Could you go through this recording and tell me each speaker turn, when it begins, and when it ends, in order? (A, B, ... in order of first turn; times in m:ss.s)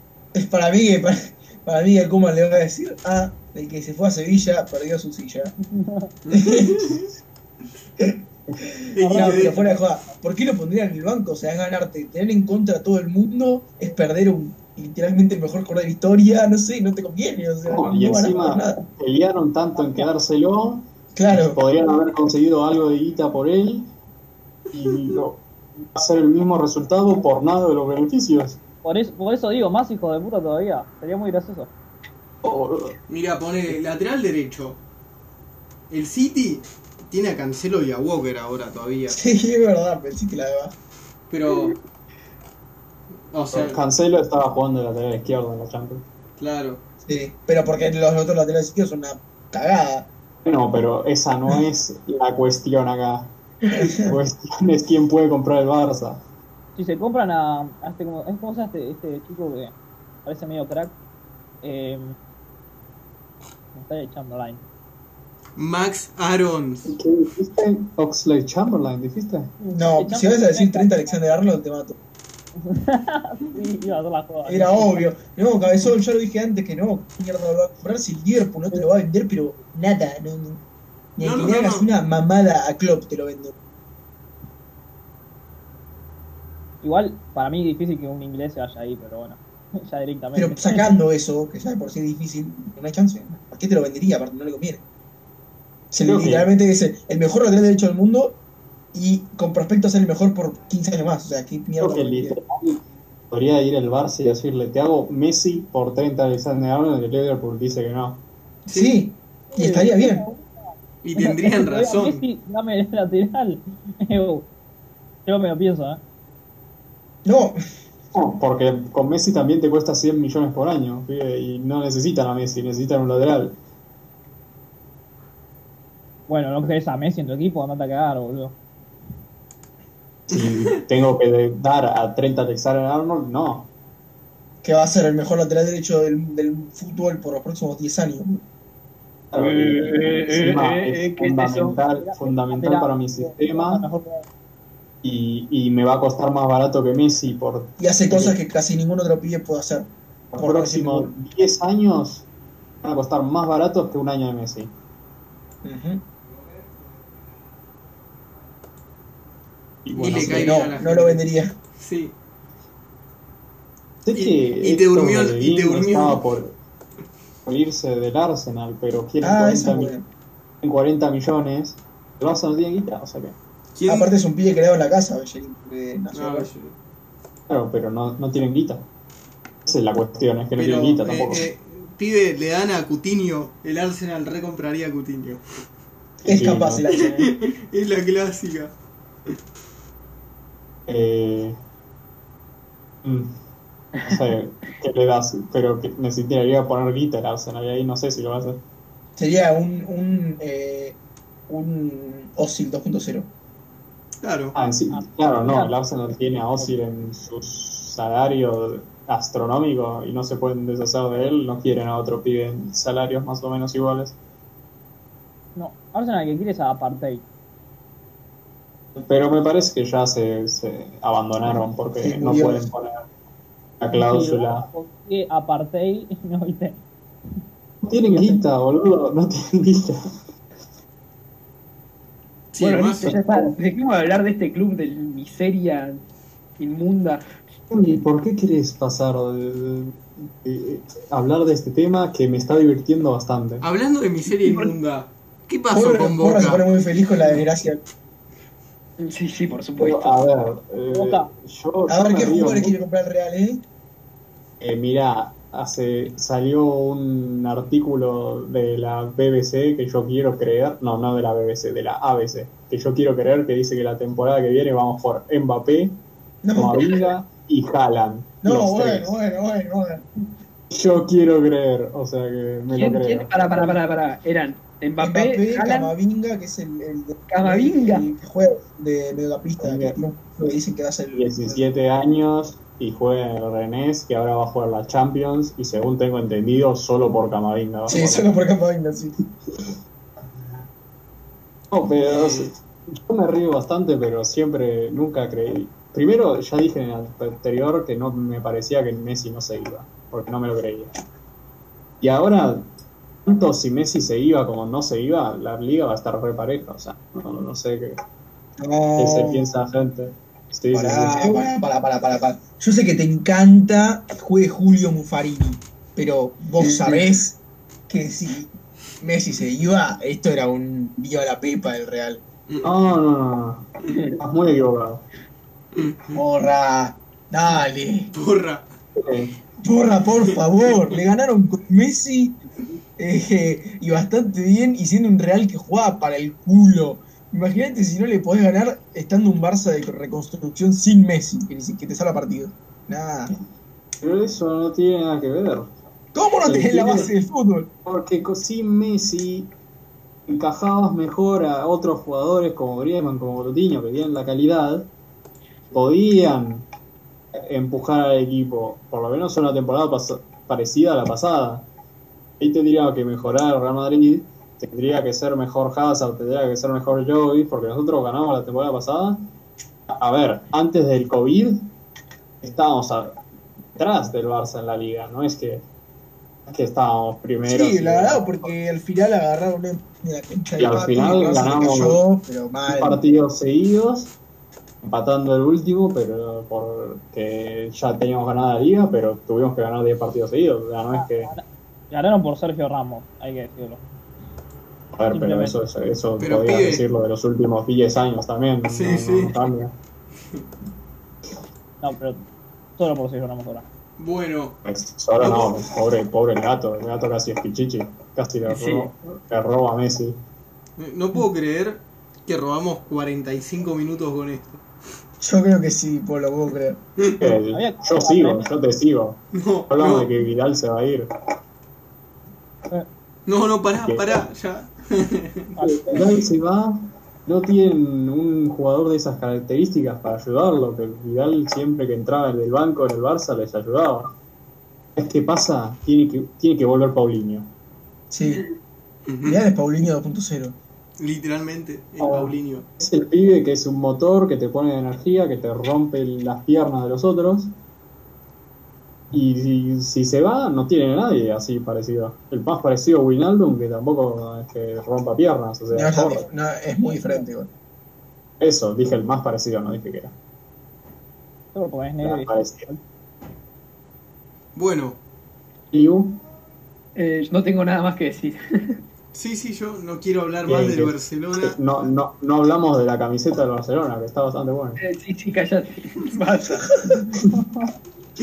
0:00.3-0:05.5 A
0:05.7-0:06.1 B
0:06.2-0:07.1 C
0:06.3-0:06.9 A
0:08.0-0:18.8 A
0:08.9-0:09.6 C
0:09.0-0:09.8 B
0:17.7-0:23.9 D
0:21.2-0:21.6 A
0:24.7-0:28.6 D
0:28.8-0:31.7 B
0:32.4-0:33.0 D
0:33.1-0:34.8 C
0:35.9-0:39.2 C
0:39.1-0:40.8 A
0:41.3-0:41.7 C
0:43.3-0:43.8 C
0:43.5-0:46.0 D
0:46.4-0:46.8 C
0:47.0-0:50.1 A
0:50.4-0:56.2 D
0:53.6-0:54.2 A
0:56.8-0:59.7 B
1:00.2-1:01.0 B
1:01.6-1:02.1 B
1:03.7-1:04.6 B
1:05.6-1:06.9 C
1:06.8-1:09.5 D
1:09.6-1:11.2 B
1:09.8-1:12.0 A
1:12.6-1:15.1 B
1:14.4-1:20.6 A
1:21.2-1:23.5 A
1:21.2-1:21.9 C
1:26.8-1:30.9 B
1:30.3-1:34.8 A
1:35.9-1:38.4 A
1:36.0-1:36.5 D
1:38.9-1:42.4 A
1:41.8-1:48.2 D
1:48.6-1:50.2 A
1:49.5-1:50.5 B
1:51.0-1:52.2 C
1:51.2-1:54.5 B
1:55.2-1:56.0 B
1:57.2-1:57.6 A
1:58.1-2:03.6 D
2:06.3-2:08.6 B
2:10.3-2:13.7 D
2:14.6-2:18.4 A
2:19.3-2:23.8 D
2:19.3-2:21.8 E
2:21.9-2:24.2 B
2:25.0-2:28.4 D
2:27.8-2:31.1 A
2:30.3-2:32.3 D
2:32.8-2:34.7 D
2:35.6-2:36.0 A
2:39.8-2:40.7 D
2:40.0-2:42.1 C
2:40.2-2:41.6 A
2:44.0-2:46.6 D
2:44.1-2:46.2 C
2:47.4-2:49.9 D
2:49.2-2:50.0 A
2:50.6-2:53.4 D
2:53.7-2:54.1 C
2:53.8-2:56.5 A
2:56.1-2:56.7 C
2:57.5-2:58.8 D
2:59.6-3:01.5 D
3:00.6-3:05.4 C
3:06.2-3:07.3 A
3:06.2-3:06.9 D
3:06.9-3:08.7 C
3:10.9-3:11.6 D
3:13.0-3:13.3 D
3:14.0-3:18.6 D
3:19.2-3:23.3 A
3:24.2-3:24.5 C
3:24.5-3:34.2 D
3:24.9-3:25.7 B
3:35.5-3:37.2 B
3:39.0-3:43.0 D
3:42.0-3:42.7 A
3:43.8-3:44.7 D
3:43.9-3:46.8 B
3:47.8-3:50.1 D
3:48.0-3:48.4 B
3:52.5-3:53.1 C
3:52.6-3:56.0 E
3:53.0-3:53.6 D
3:56.6-3:57.2 E
3:57.7-4:03.7 D
4:03.6-4:06.6 C
4:04.4-4:04.7 E
4:05.7-4:07.8 A
4:09.0-4:10.2 E
4:09.8-4:12.8 D
4:10.9-4:11.3 B
4:11.9-4:13.6 A
4:14.6-4:26.0 D
4:26.4-4:27.0 A
4:26.5-4:29.1 D
4:28.4-4:30.0 A
4:30.7-4:33.8 D
4:32.7-4:35.9 E
4:35.0-4:41.6 A
4:37.3-4:38.1 E
4:39.6-4:40.0 D
4:41.1-4:48.3 D
4:47.9-4:49.2 A
4:51.7-5:00.9 D
4:52.1-4:52.5 C
5:02.0-5:02.7 D
5:03.2-5:08.0 D
5:08.6-5:09.5 A
5:09.0-5:11.3 D
5:10.7-5:22.2 A
5:16.6-5:17.0 D
5:22.6-5:25.0 D
5:25.8-5:26.1 C
5:26.1-5:28.1 A
5:28.1-5:28.7 C
5:29.0-5:29.3 D
5:29.6-5:32.4 A
5:33.0-5:43.3 A
5:44.0-5:45.7 D
5:46.1-5:47.7 A
5:46.4-5:47.1 D
5:47.8-5:49.5 D
5:50.3-5:54.9 D
5:55.7-5:56.6 D
5:57.3-6:01.6 D
6:02.4-6:09.2 D
6:09.9-6:11.7 D
6:12.4-6:13.2 D
6:13.8-6:15.6 D
6:16.5-6:18.5 D
6:17.4-6:23.0 A
6:20.6-6:22.0 D
6:22.7-6:24.1 D
6:24.8-6:31.3 D
6:30.9-6:33.8 B
6:34.9-6:39.7 D
6:35.1-6:35.6 B
6:36.2-6:36.8 C
6:38.6-6:39.4 C
6:41.8-6:42.2 B
6:42.8-6:43.6 B
6:44.0-6:44.6 C
6:44.6-6:50.2 D
6:45.2-6:45.6 C
6:48.5-6:48.9 E
6:50.8-6:54.6 C
6:55.2-6:56.8 A
6:57.0-6:57.3 C
6:57.2-7:01.1 D
6:57.5-6:58.5 B
6:59.3-7:00.1 C
7:03.3-7:05.5 C
7:03.8-7:04.2 D
7:05.5-7:06.2 B
7:05.6-7:14.1 D
7:14.9-7:17.5 D
7:18.1-7:18.4 A
7:19.1-7:19.4 C
7:19.2-7:20.6 A
7:21.0-7:22.6 C
7:22.0-7:27.5 D
7:29.1-7:36.2 D
7:35.7-7:37.5 A
7:38.4-7:40.1 D
7:41.5-7:42.8 B
7:42.0-7:42.7 D
7:44.5-7:45.0 C
7:45.7-7:46.2 D
7:47.0-7:48.8 E
7:49.1-7:51.6 C
7:50.4-7:54.8 D
7:54.8-7:57.1 E
7:57.1-7:57.6 D